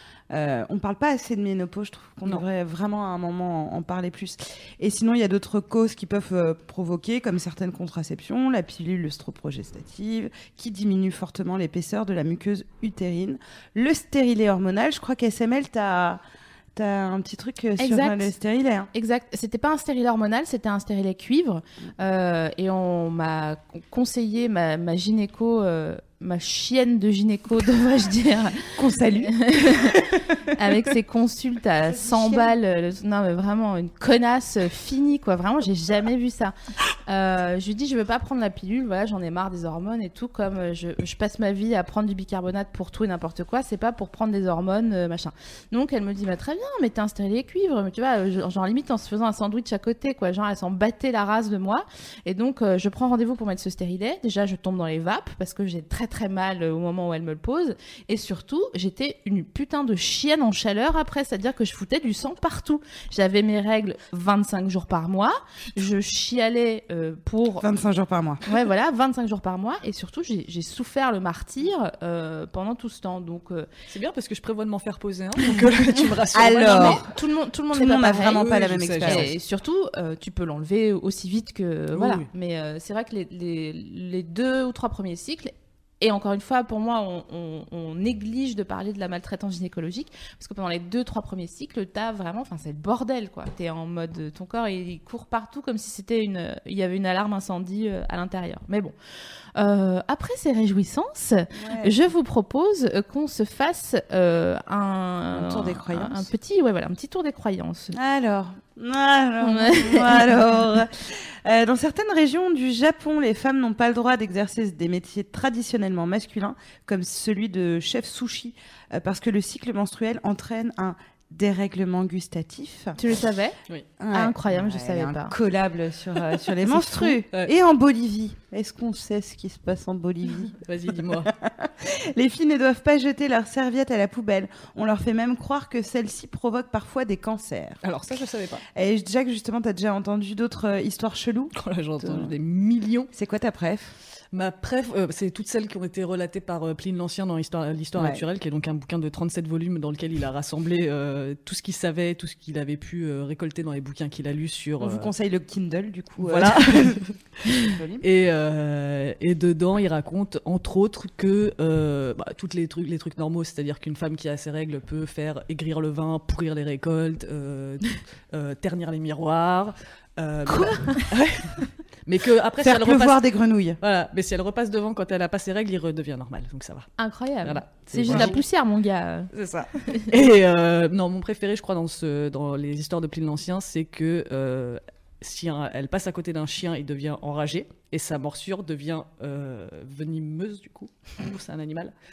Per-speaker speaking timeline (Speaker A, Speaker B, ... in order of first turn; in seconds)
Speaker A: 0.3-16.2, 16.7-18.9, 28.7-30.0, 31.8-32.5, 67.6-68.4, 76.3-77.1, 77.7-79.3, 101.5-101.9, 105.3-106.3, 107.9-123.0, 124.0-137.8, 138.7-142.3, 143.1-143.9, 147.9-148.2, 154.8-157.0, 157.6-158.1, 170.4-170.8, 172.6-173.8, 178.1-178.3, 179.3-179.7
Speaker B: 17.8-18.3, 18.9-28.7, 29.2-30.0, 30.5-36.5, 37.1-67.6, 68.5-73.7, 76.6-78.4, 79.0-98.9, 99.5-107.9, 109.4-110.5, 123.0-123.5, 124.1-125.3, 126.7-127.2, 177.0-179.3
Speaker C: 73.9-77.0, 78.4-79.3, 81.9-82.3, 130.7-131.3, 137.8-138.6, 141.6-143.1, 144.3-155.1, 156.2-173.2, 173.8-176.9, 177.4-178.4, 180.1-191.9